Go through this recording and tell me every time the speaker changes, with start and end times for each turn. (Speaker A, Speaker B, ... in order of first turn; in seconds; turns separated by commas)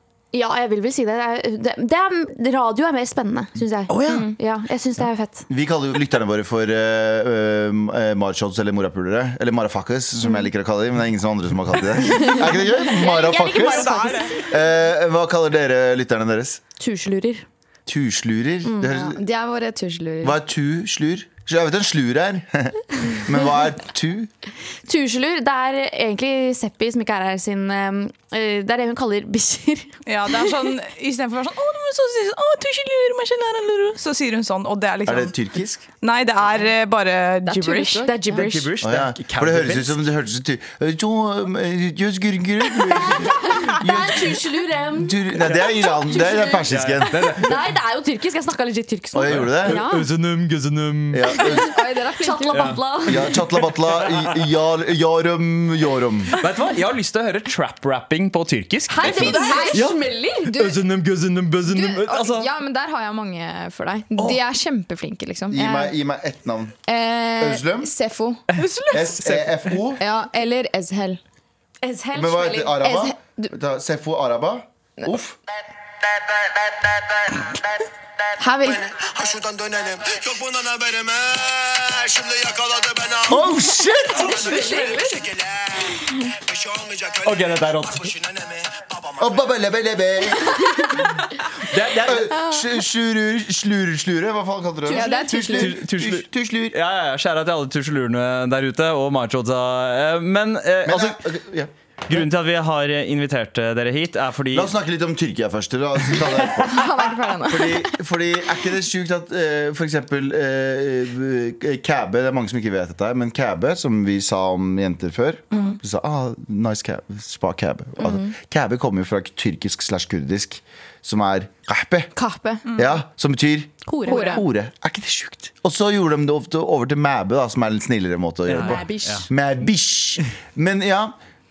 Speaker A: 0.3-5.5, Speaker B: 3.9-4.3, Speaker C: 4.0-4.3, Speaker D: 5.5-16.6, Speaker A: 12.8-14.4, Speaker E: 13.3-14.4, Speaker A: 16.8-17.4, Speaker D: 17.9-19.2, Speaker A: 18.6-18.9, Speaker C: 18.8-20.4, Speaker D: 20.2-24.3, Speaker A: 24.9-30.0, Speaker E: 30.1-35.3, Speaker D: 35.1-35.8, Speaker E: 36.0-38.7, Speaker C: 37.5-38.3, Speaker A: 38.0-38.7, Speaker B: 38.3-40.0, Speaker D: 38.8-44.4, Speaker A: 43.1-50.1, Speaker D: 45.0-47.4, Speaker B: 45.5-45.8, Speaker B: 46.6-47.7, Speaker D: 49.1-49.8, Speaker B: 49.3-51.3, Speaker D: 51.1-51.8, Speaker C: 51.5-52.7, Speaker A: 52.2-53.3, Speaker B: 52.5-52.8, Speaker D: 53.1-56.3, Speaker B: 53.6-54.5, Speaker B: 56.3-62.5, Speaker A: 58.9-60.6, Speaker C: 59.0-60.9, Speaker C: 61.7-66.0, Speaker D: 65.5-66.8, Speaker C: 66.9-68.4, Speaker D: 67.4-67.9, Speaker B: 68.5-69.8, Speaker E: 68.6-69.1, Speaker D: 68.9-70.0, Speaker C: 70.0-71.2, Speaker A: 71.8-72.9, Speaker D: 72.1-75.4, Speaker C: 72.8-73.5, Speaker F: 76.8-77.4, Speaker C: 78.4-78.9, Speaker F: 78.6-83.5, Speaker D: 83.3-84.4, Speaker F: 84.2-89.3, Speaker C: 84.3-85.2, Speaker A: 84.5-84.9, Speaker B: 87.2-88.2, Speaker D: 89.2-90.9, Speaker C: 90.5-90.9, Speaker B: 91.6-92.5, Speaker D: 92.0-96.8, Speaker C: 94.9-95.8, Speaker B: 94.9-101.2, Speaker D: 100.8-102.2, Speaker B: 102.1-104.7, Speaker D: 104.5-122.1, Speaker C: 106.2-108.0, Speaker C: 115.5-115.8, Speaker A: 118.0-118.3, Speaker C: 122.2-122.7, Speaker E: 122.7-122.9, Speaker D: 122.8-131.2, Speaker A: 123.9-124.4, Speaker C: 124.1-124.5, Speaker B: 128.5-129.3, Speaker A: 128.6-129.2